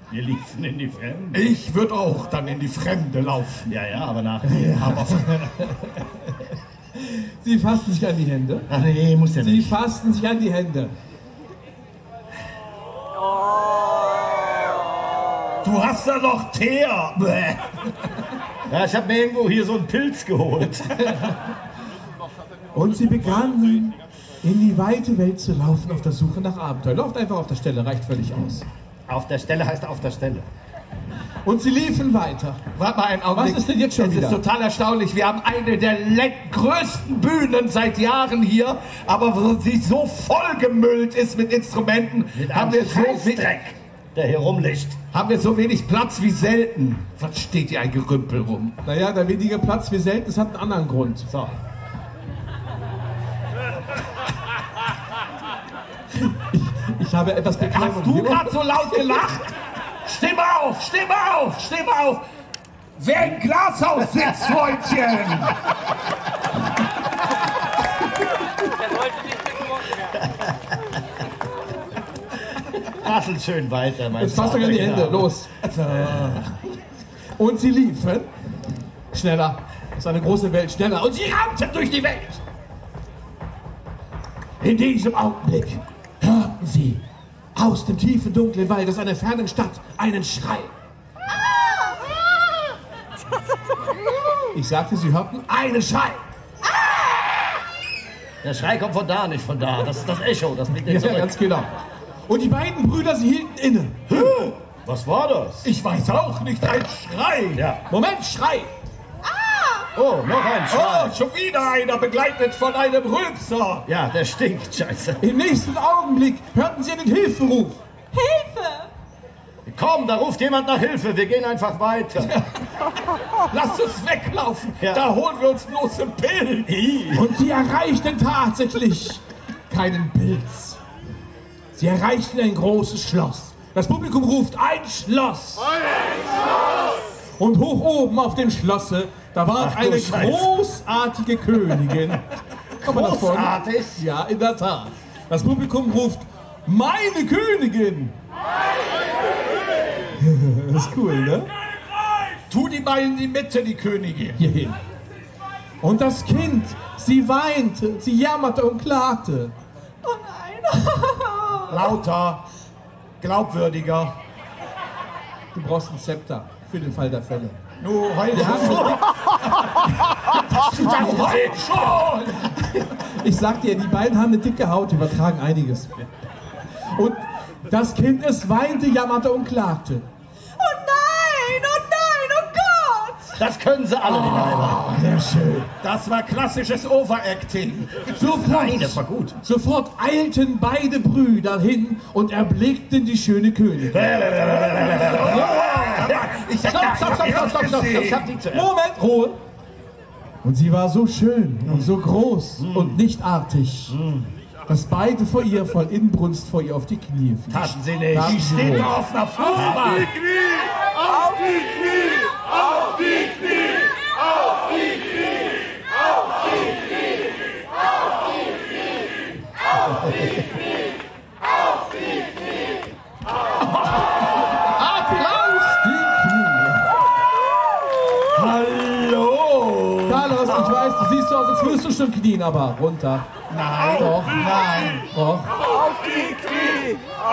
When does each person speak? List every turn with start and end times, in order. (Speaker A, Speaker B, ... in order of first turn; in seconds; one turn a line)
Speaker A: 0.1-1.5
Speaker B: 1.3-3.7
Speaker A: 3.7-5.3
Speaker C: 4.5-5.7
Speaker B: 4.7-5.3
Speaker C: 7.0-8.7
Speaker A: 8.7-9.8
Speaker C: 9.4-10.9
Speaker B: 15.6-17.8
Speaker A: 18.7-21.2
Speaker C: 22.7-28.6
Speaker A: 29.1-30.4
Speaker C: 31.4-32.6
Speaker B: 32.7-43.5
Speaker C: 33.3-34.4
Speaker A: 42.3-45.0
Speaker B: 45.1-48.8
Speaker C: 48.8-51.3
Speaker A: 51.3-51.5
Speaker C: 56.1-59.2
Speaker B: 57.5-62.2
Speaker B: 63.0-65.5
Speaker A: 64.2-64.5
Speaker A: 70.2-70.5
Speaker A: 72.9-75.3
Speaker C: 74.2-75.5
Speaker B: 75.6-76.5
Speaker A: 76.0-76.4
Speaker C: 77.3-78.3
Speaker C: 79.1-82.4
Speaker C: 84.6-87.0
Speaker C: 87.5-90.7
Speaker C: 94.5-96.2
Speaker A: 98.4-101.3
Speaker C: 100.7-101.8
Speaker C: 102.3-104.1
Speaker A: 104.1-105.7
Speaker B: 105.6-107.6
Speaker A: 107.5-107.8
Speaker C: 107.9-108.7
Speaker D: 109.2-109.9
Speaker A: 109.9-111.2
Speaker B: 110.7-113.8
Speaker A: 113.8-115.2
Speaker C: 115.2-117.8
Speaker D: 118.1-118.9
Speaker A: 119.7-122.3
Speaker B: 123.5-126.8
Speaker A: 124.8-125.1
Speaker A: 126.7-127.3
Speaker C: 127.1-130.8
Speaker C: 131.7-135.7
Speaker C: 137.4-142.2
Speaker A: 139.6-140.5
Speaker C: 142.8-148.1
Speaker A: 142.8-144.0
Speaker C: 150.2-151.5
Speaker B: 152.5-154.4
Speaker C: 154.4-154.8
Speaker C: 155.8-159.5
Speaker D: 160.0-161.9
Speaker B: 161.7-162.4
Speaker B: 163.2-164.2
Speaker C: 165.5-167.6
Speaker B: 167.8-169.1
Speaker C: 168.3-169.0
Speaker C: 170.3-176.1
Speaker B: 170.6-172.5
Speaker C: 176.8-180.1
Speaker D: 180.6-183.4
Speaker A: 183.3-184.8
Speaker C: 184.1-185.7
Speaker B: 185.8-188.1
Speaker C: 188.1-194.2
Speaker A: 188.2-189.3
Speaker A: 193.9-196.4
Speaker B: 194.5-198.3
Speaker C: 196.6-199.4
Speaker A: 197.0-198.7
Speaker C: 200.4-204.0
Speaker A: 201.7-201.9
Speaker A: 202.6-203.0
Speaker A: 203.9-204.3
Speaker C: 204.7-209.0
Speaker A: 207.5-208.4
Speaker B: 208.1-210.2
Speaker A: 209.4-210.1
Speaker A: 219.9-220.3
Speaker C: 224.7-226.8
Speaker B: 228.3-230.5
Speaker C: 230.1-233.3
Speaker B: 233.5-235.0
Speaker C: 233.9-234.5
Speaker C: 235.0-235.5